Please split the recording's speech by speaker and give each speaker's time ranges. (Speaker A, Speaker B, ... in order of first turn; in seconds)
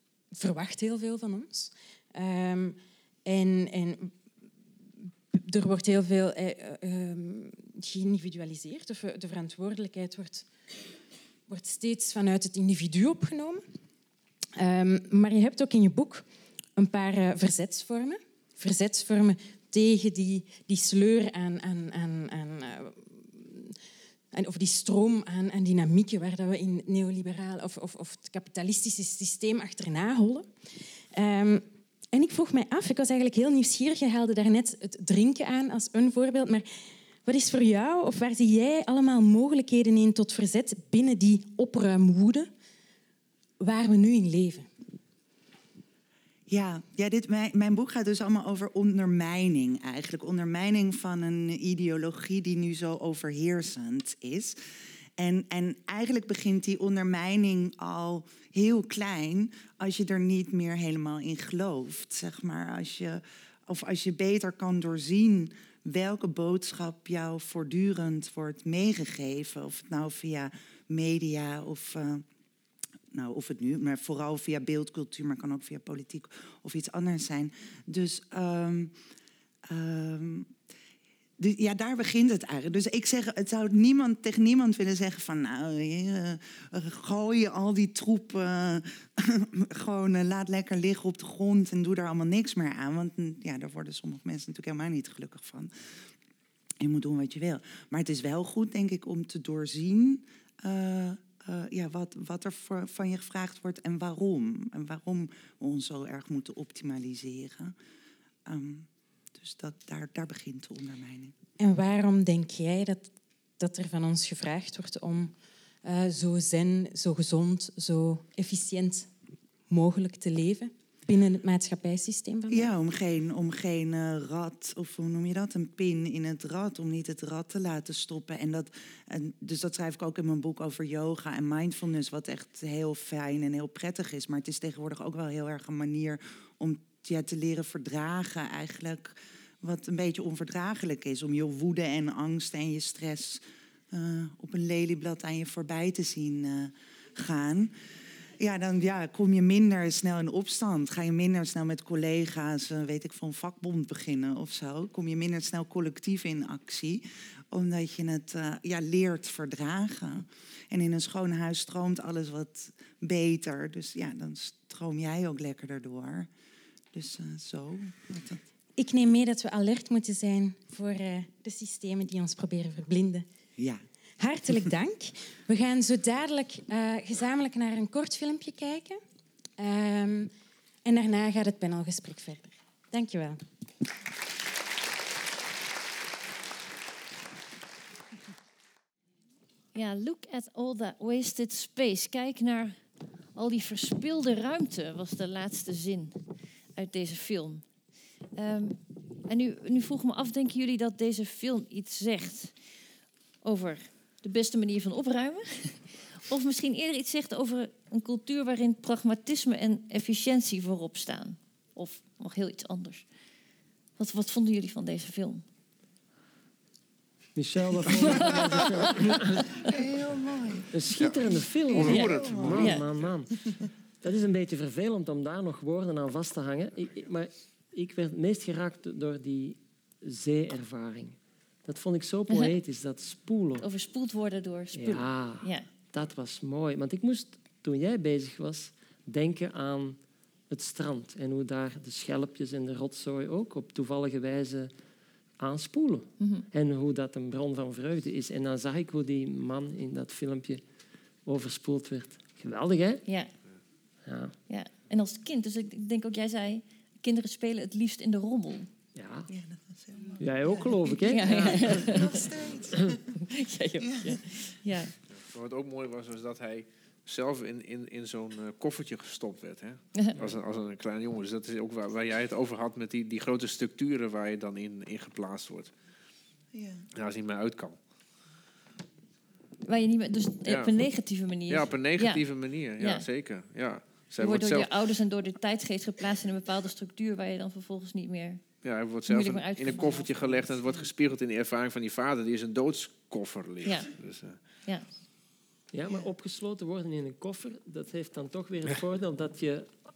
Speaker A: 0.3-4.1, 5.3-10.5, 11.5-13.6, 14.6-16.2, 16.8-23.7, 24.3-30.5, 31.1-36.7, 37.2-42.5, 43.6-44.7, 111.6-115.3, 115.8-119.1, 119.7-122.7, 168.8-173.2, 174.2-179.0, 179.6-180.3, 180.8-183.4
Speaker B: 46.5-54.6, 55.2-72.2, 73.1-78.9, 79.7-80.5, 81.4-95.7, 96.8-107.7, 108.5-111.3, 122.5-147.7, 148.4-166.3, 166.9-168.4, 173.6-173.8, 219.6-221.0, 221.7-222.7, 259.3-263.1, 263.8-264.2, 276.5-276.9
Speaker C: 189.7-192.8, 193.3-197.6, 198.3-202.5, 203.4-213.0, 214.0-215.4, 217.9-219.4, 222.6-222.8, 233.6-235.7, 246.2-246.4, 253.1-253.3, 254.5-258.7, 261.1-262.3, 263.1-264.9, 279.6-282.2, 282.8-283.1, 284.2-288.4, 289.1-290.5, 293.6-293.9
Speaker D: 217.3-219.7, 220.7-223.4, 224.0-233.7, 234.7-240.0, 240.5-244.7, 245.4-250.6, 251.2-253.0, 254.0-254.3, 258.9-259.3, 260.2-262.2, 295.7-299.7
Speaker E: 221.0-223.1, 265.1-275.7, 276.9-277.8, 280.4-280.7, 281.5-284.7, 288.6-294.4